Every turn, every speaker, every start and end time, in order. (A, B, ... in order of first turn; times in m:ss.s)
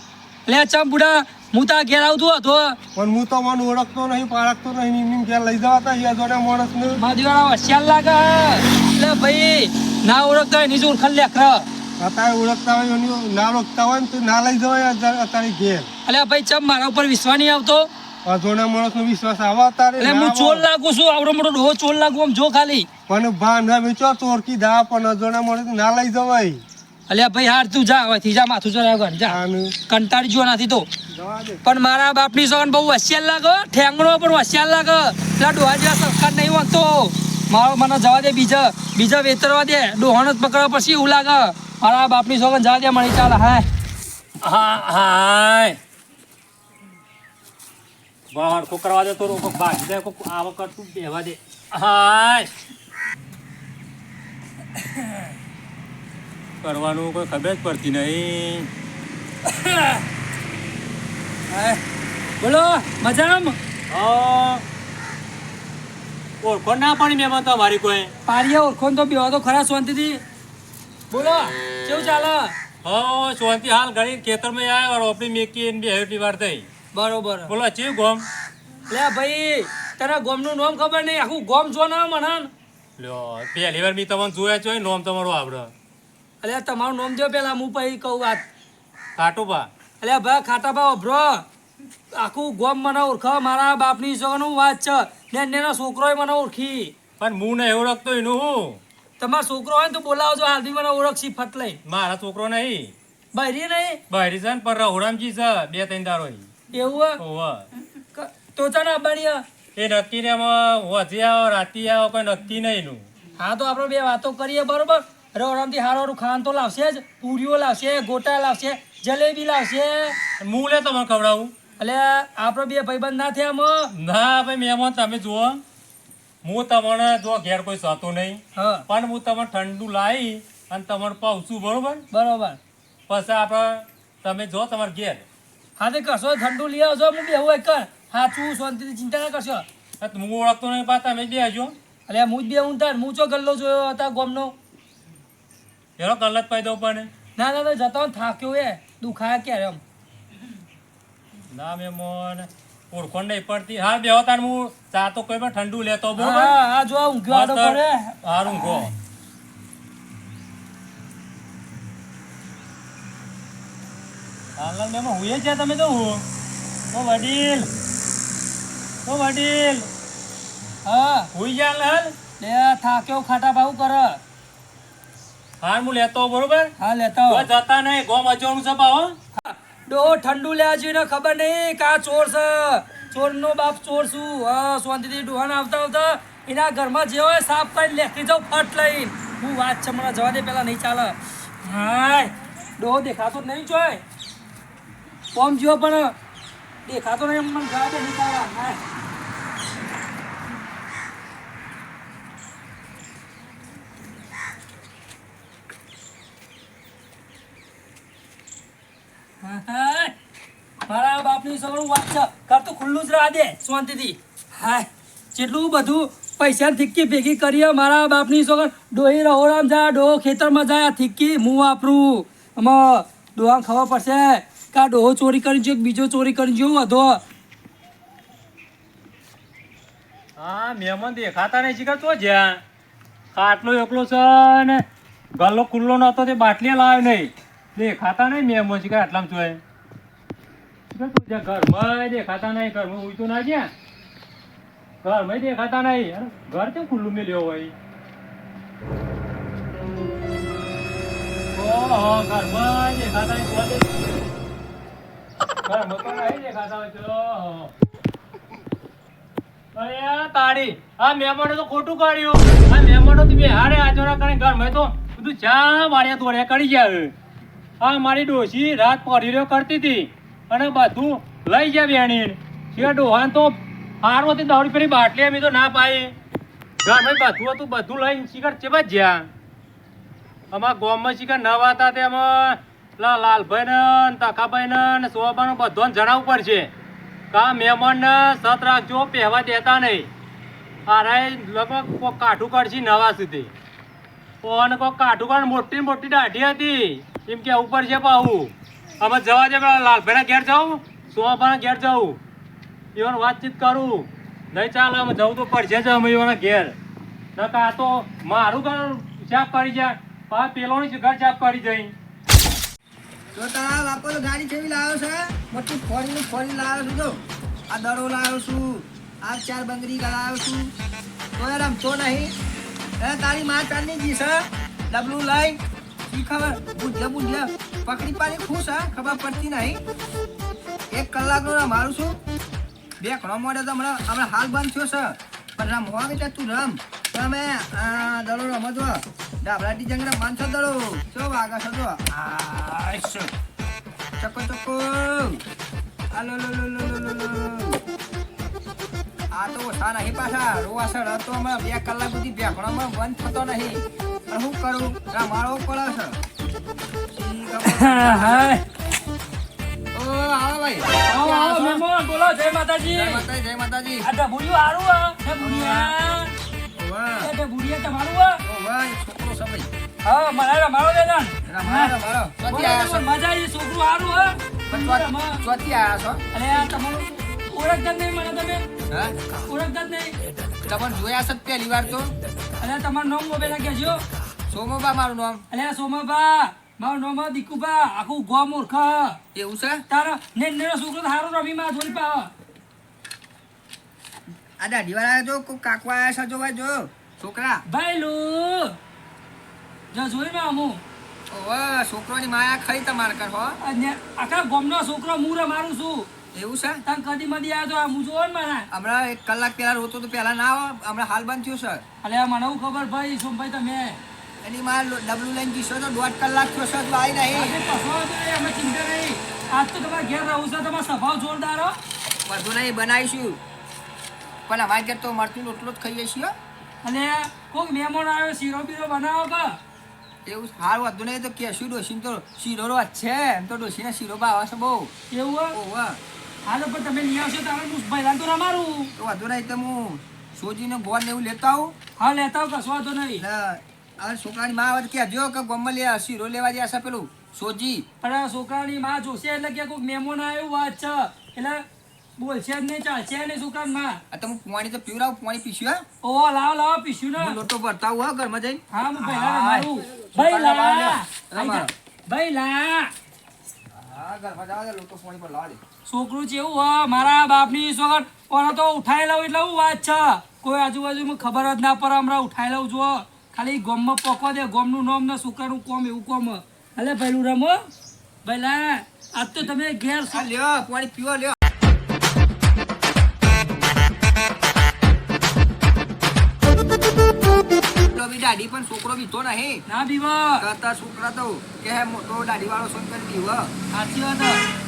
0:00.4-0:02.8 A
0:02.9-0:07.0 B
0:07.0-0:11.6 A
0:12.0-0:15.9 B
0:16.0-0:17.9 A
0:18.2-0:20.6 B
0:20.0-0:22.9 A
0:23.1-0:26.6 B
0:27.1-0:30.9 A
0:29.2-0:29.7 B
0:31.1-0:31.6 B
0:31.6-0:43.6 A
0:44.4-0:45.8 C
0:48.3-0:52.5 C
0:54.8-0:55.1 A
0:56.6-0:58.7 C
0:59.4-1:00.0 A
1:01.5-1:01.8 A
1:02.4-1:03.6 A
1:03.9-1:04.6 C
1:06.4-1:08.1 C
1:08.2-1:10.2 A
1:11.1-1:12.5 A
1:12.8-1:16.7 C
1:16.9-1:17.5 A
1:17.5-1:18.2 C
1:18.9-1:22.5 A
1:23.0-1:25.7 C
1:26.4-1:28.4 A
1:29.2-1:29.7 C
1:30.0-1:31.4 A
1:32.1-1:36.9 A
1:37.2-1:38.8 C
1:39.2-1:41.8 A
1:41.8-1:42.9 C
1:43.3-1:44.0 A
1:44.1-1:46.5 C
1:46.7-1:47.2 A
1:47.2-1:47.7 C
1:48.1-1:49.4 A
1:49.8-1:53.0 C
1:53.4-2:00.2 A
2:00.4-2:01.5 C
2:01.8-2:03.9 A
2:03.9-2:05.6 C
2:06.4-2:12.0 C
2:08.6-2:08.8 A
2:12.1-2:12.6 A
2:13.1-2:15.2 C
2:15.8-2:19.6 A
2:20.0-2:21.8 C
2:22.1-2:24.5 A
2:26.0-2:27.1 C
2:27.4-2:29.8 A
2:31.5-2:36.5 C
2:36.2-2:38.1 A
2:37.3-2:38.9 C
2:44.6-2:46.2 C
2:46.9-2:47.7 C
2:49.0-2:49.9 C
2:50.8-2:51.3 A
2:51.3-2:52.1 C
2:52.4-2:54.2 A
2:55.6-2:56.7 C
2:56.8-2:57.5 A
2:57.3-2:59.2 C
2:59.4-3:14.0 A
3:15.3-3:16.1 A
3:16.8-3:18.8 A
3:29.4-3:30.1 A
3:30.8-3:47.2 A
3:50.4-3:52.6 C
3:53.3-3:54.8 C
3:55.4-3:59.6 C
4:00.9-4:03.7 C
4:05.0-4:07.7 C
4:11.5-4:13.9 C
4:15.6-4:17.7 C
4:19.7-4:27.1 C
4:27.8-4:36.1 C
4:36.8-4:39.3 C
4:40.5-4:46.7 C
4:47.3-4:50.1 C
4:50.9-4:53.5 C
4:54.4-5:02.2 C
5:03.0-5:06.7 C
5:07.4-5:11.9 C
5:13.3-5:20.7 D
5:21.4-5:22.3 D
5:23.0-5:29.8 D
5:30.9-5:32.2 D
5:33.0-5:42.2 D
5:42.5-5:43.2 A
5:44.2-5:45.4 D
5:46.1-5:47.8 D
5:49.3-5:56.2 D
5:57.2-5:58.5 D
5:57.7-5:58.6 A
5:59.9-6:01.8 D
6:01.1-6:03.2 A
6:02.9-6:04.1 D
6:04.0-6:06.3 A
6:05.4-6:05.9 D
6:06.7-6:07.3 D
6:07.2-6:08.4 A
6:08.4-6:09.7 D
6:10.0-6:12.0 A
6:11.4-6:13.0 D
6:12.5-6:15.4 A
6:14.7-6:16.2 D
6:16.3-6:18.6 A
6:18.9-6:19.1 D
6:19.4-6:20.1 A
6:20.6-6:22.1 D
6:22.6-6:24.0 A
6:24.5-6:25.4 D
6:25.5-6:29.2 A
6:29.3-6:29.8 D
6:29.9-6:32.3 A
6:34.6-6:37.6 D
6:37.7-6:38.7 A
6:39.9-6:40.8 A
6:41.3-6:43.6 D
6:43.6-6:46.1 A
6:46.3-6:46.8 D
6:46.8-6:48.7 A
6:48.7-6:51.8 D
6:52.0-6:54.0 A
6:54.4-6:57.6 D
6:57.3-7:01.7 A
7:02.3-7:03.4 D
7:04.5-7:06.3 D
7:06.8-7:09.6 A
7:10.2-7:14.9 D
7:15.1-7:15.6 A
7:15.5-7:16.0 D
7:16.4-7:18.9 A
7:19.0-7:21.7 D
7:22.0-7:23.2 A
7:23.2-7:27.8 D
7:28.0-7:31.6 A
7:32.2-7:34.0 A
7:34.1-7:35.8 D
7:36.0-7:37.4 A
7:37.2-7:41.7 D
7:38.7-7:42.9 A
7:43.7-7:45.6 D
7:45.8-7:57.6 A
7:58.2-8:00.2 A
8:00.1-8:01.4 D
8:07.9-8:09.6 D
8:09.7-8:10.4 A
8:10.4-8:13.5 D
8:13.7-8:14.4 A